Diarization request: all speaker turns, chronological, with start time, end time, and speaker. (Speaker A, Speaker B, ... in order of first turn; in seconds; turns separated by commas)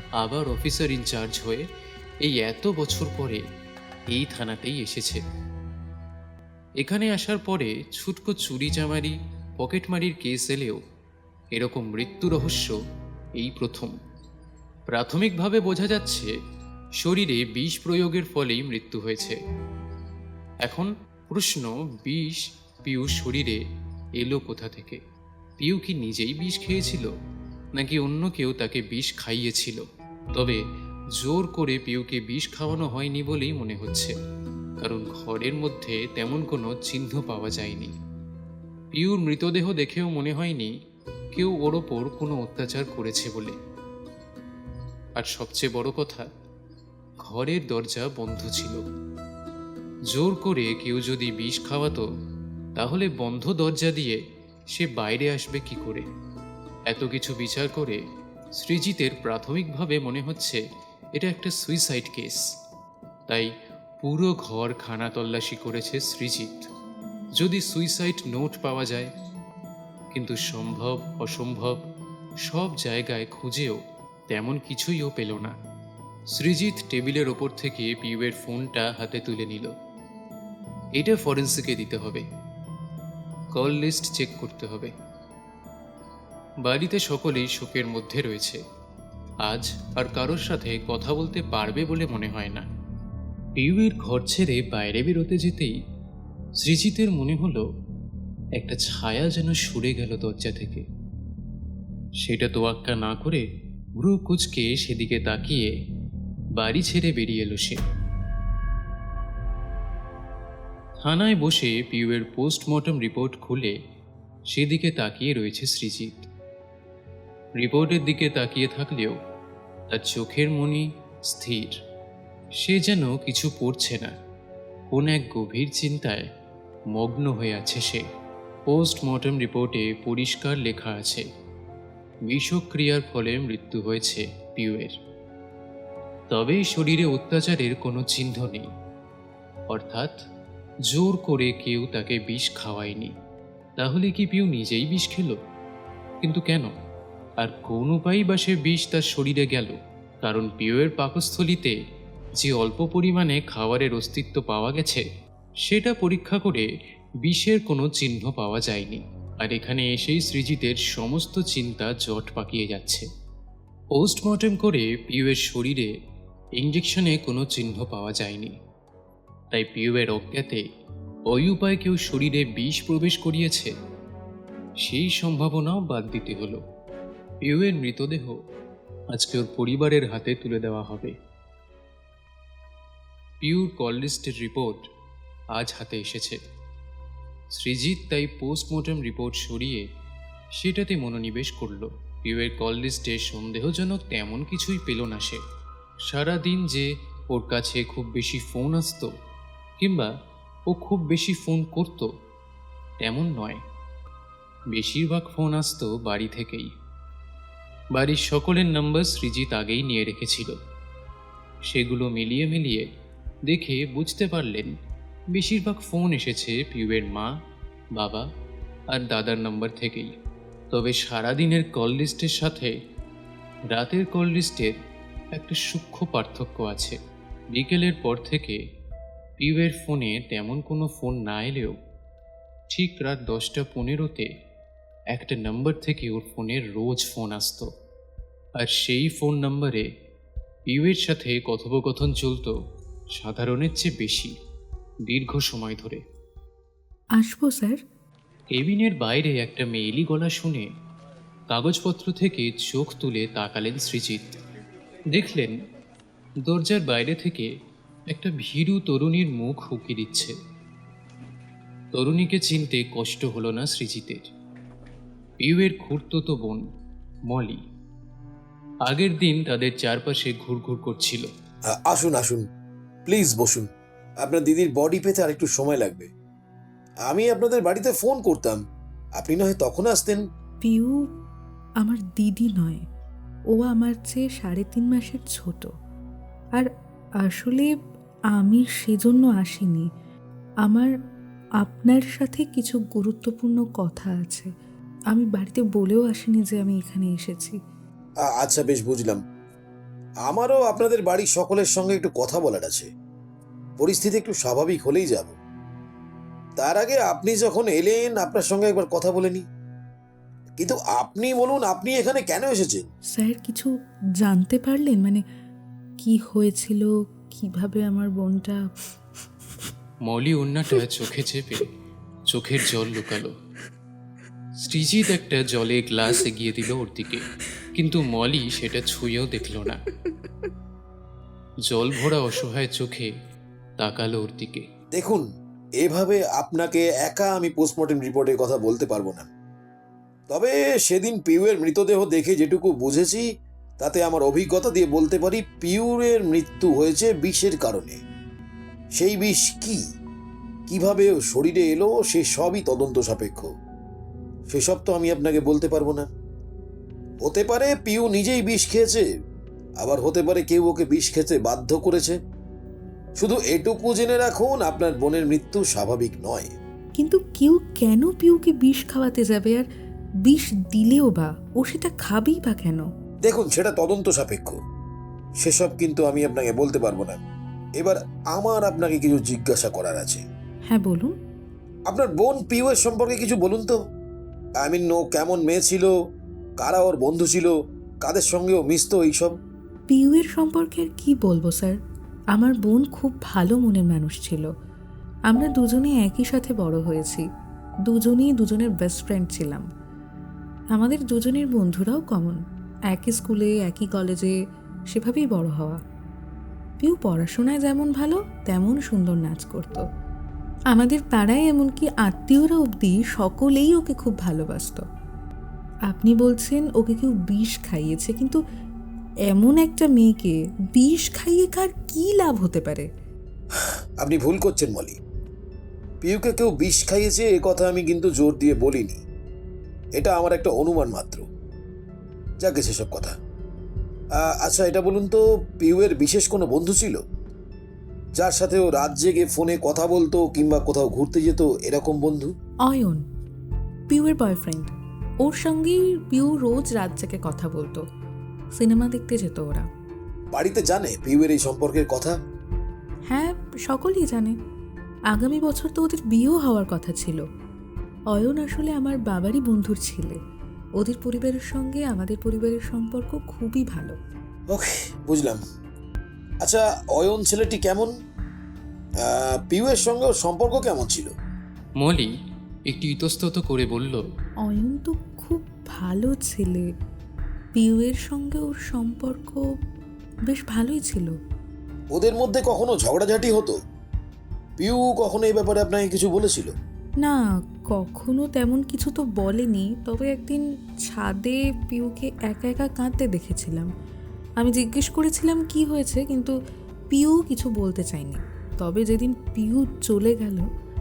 Speaker A: 0.2-1.6, Speaker A: 2.2-3.4, Speaker A: 4.1-5.2, Speaker A: 6.8-10.8, Speaker A: 11.5-12.8, Speaker A: 13.4-13.9, Speaker A: 14.9-16.3, Speaker A: 17.0-19.4, Speaker A: 20.6-23.6, Speaker A: 24.2-25.0, Speaker A: 25.6-27.1, Speaker A: 27.8-29.8, Speaker A: 30.4-30.6, Speaker A: 31.2-34.1, Speaker A: 34.8-37.9, Speaker A: 38.9-40.7, Speaker A: 41.4-43.5, Speaker A: 45.2-46.3, Speaker A: 47.2-48.8, Speaker A: 50.1-52.0, Speaker A: 52.8-54.2, Speaker A: 54.7-56.1, Speaker A: 56.9-58.0, Speaker A: 58.6-60.6, Speaker A: 61.2-62.4, Speaker A: 64.0-66.7, Speaker A: 67.4-69.1, Speaker A: 70.1-71.8, Speaker A: 72.5-75.5, Speaker A: 76.3-79.7, Speaker A: 81.0-82.2, Speaker A: 83.5-84.9, Speaker A: 86.6-88.6, Speaker A: 89.5-92.6, Speaker A: 93.6-95.8, Speaker A: 96.6-97.6, Speaker A: 98.6-100.8, Speaker A: 102.2-103.4, Speaker A: 104.0-105.7, Speaker A: 106.6-107.8, Speaker A: 111.0-113.8, Speaker A: 114.5-116.3, Speaker A: 117.6-119.2, Speaker A: 119.9-121.8, Speaker A: 122.6-124.1, Speaker A: 124.9-126.3, Speaker A: 127.0-128.0, Speaker A: 128.7-131.2, Speaker A: 132.3-134.9, Speaker A: 136.3-138.7, Speaker A: 139.7-140.1, Speaker A: 140.9-143.1, Speaker A: 143.8-145.4, Speaker A: 146.2-146.7, Speaker A: 147.4-151.8, Speaker A: 152.4-155.0, Speaker A: 155.7-156.7, Speaker A: 157.2-163.1, Speaker A: 163.9-165.9, Speaker A: 166.6-168.6, Speaker A: 169.5-170.6, Speaker A: 171.3-173.7, Speaker A: 174.8-176.6, Speaker A: 177.4-178.4, Speaker A: 179.1-181.1, Speaker A: 183.4-184.8, Speaker A: 185.6-186.4, Speaker A: 187.6-189.8, Speaker A: 190.6-195.4, Speaker A: 196.1-199.1, Speaker A: 199.8-200.1, Speaker A: 200.7-202.1, Speaker A: 203.0-203.6, Speaker A: 204.7-206.7, Speaker A: 207.9-210.6, Speaker A: 211.7-212.9, Speaker A: 213.5-214.7, Speaker A: 215.3-217.3, Speaker A: 218.0-218.2, Speaker A: 218.9-220.1, Speaker A: 220.7-222.7, Speaker A: 223.7-224.7, Speaker A: 225.3-227.0, Speaker A: 227.5-228.6, Speaker A: 229.4-231.8, Speaker A: 232.7-234.3, Speaker A: 235.1-237.7, Speaker A: 238.6-239.8, Speaker A: 240.7-242.5, Speaker A: 243.2-244.3, Speaker A: 245.1-246.0, Speaker B: 247.2-247.8, Speaker A: 248.5-250.7, Speaker A: 251.5-254.3, Speaker A: 255.1-255.5, Speaker A: 256.4-257.5, Speaker A: 258.1-260.3, Speaker A: 261.9-264.2, Speaker A: 265.4-266.6, Speaker A: 267.3-267.6, Speaker A: 268.9-271.3, Speaker C: 271.7-272.5, Speaker C: 273.1-273.7, Speaker C: 274.2-276.1, Speaker C: 277.1-278.6, Speaker C: 279.2-280.2, Speaker B: 280.6-281.0, Speaker B: 281.8-282.8, Speaker B: 283.5-285.7, Speaker B: 287.2-287.7, Speaker B: 288.4-289.9, Speaker B: 290.7-290.9, Speaker B: 291.6-294.5, Speaker B: 295.1-297.6, Speaker C: 298.3-299.2, Speaker C: 300.3-302.9, Speaker C: 303.8-305.3, Speaker C: 306.6-309.4, Speaker C: 310.6-312.9, Speaker B: 313.2-313.7, Speaker B: 314.2-315.2, Speaker B: 316.0-318.7, Speaker A: 320.1-321.7, Speaker A: 322.3-323.4, Speaker A: 324.6-327.2, Speaker A: 327.8-329.8, Speaker A: 331.7-333.1, Speaker A: 333.8-334.6, Speaker C: 334.9-335.2, Speaker C: 335.8-339.3, Speaker C: 340.3-343.3, Speaker C: 343.8-348.0, Speaker C: 349.0-349.8, Speaker C: 350.7-353.5, Speaker C: 354.5-356.1, Speaker C: 357.2-359.1, Speaker C: 359.8-362.2, Speaker C: 363.2-366.5, Speaker B: 367.0-369.7, Speaker B: 370.3-372.9, Speaker C: 373.2-374.6, Speaker C: 375.4-377.2, Speaker C: 377.8-380.2, Speaker B: 380.7-381.1, Speaker C: 381.9-383.8, Speaker C: 384.6-385.9, Speaker C: 386.6-389.4, Speaker B: 389.9-391.8, Speaker B: 392.3-394.5, Speaker B: 395.3-397.2, Speaker B: 397.9-399.6, Speaker B: 400.8-402.4, Speaker B: 402.9-404.4, Speaker B: 404.9-405.8, Speaker B: 406.8-409.8, Speaker B: 410.7-414.8, Speaker B: 415.9-418.4, Speaker B: 419.3-422.9, Speaker C: 424.0-425.0, Speaker C: 426.0-429.0, Speaker C: 429.9-431.3, Speaker C: 432.4-433.2, Speaker C: 434.2-437.0, Speaker C: 438.1-442.3, Speaker B: 442.7-443.0, Speaker B: 443.9-447.8, Speaker B: 448.6-449.7, Speaker C: 450.3-452.2, Speaker B: 453.1-454.3, Speaker B: 455.1-457.2, Speaker B: 458.1-460.2, Speaker B: 460.8-464.0, Speaker C: 464.5-465.4, Speaker C: 466.4-467.9, Speaker C: 469.0-471.1, Speaker A: 471.8-472.1, Speaker A: 472.7-474.0, Speaker B: 474.4-476.7, Speaker B: 477.5-479.4, Speaker B: 480.3-481.1, Speaker C: 481.9-483.6, Speaker C: 484.6-486.5, Speaker B: 487.7-493.7, Speaker B: 494.4-496.4, Speaker B: 496.9-500.5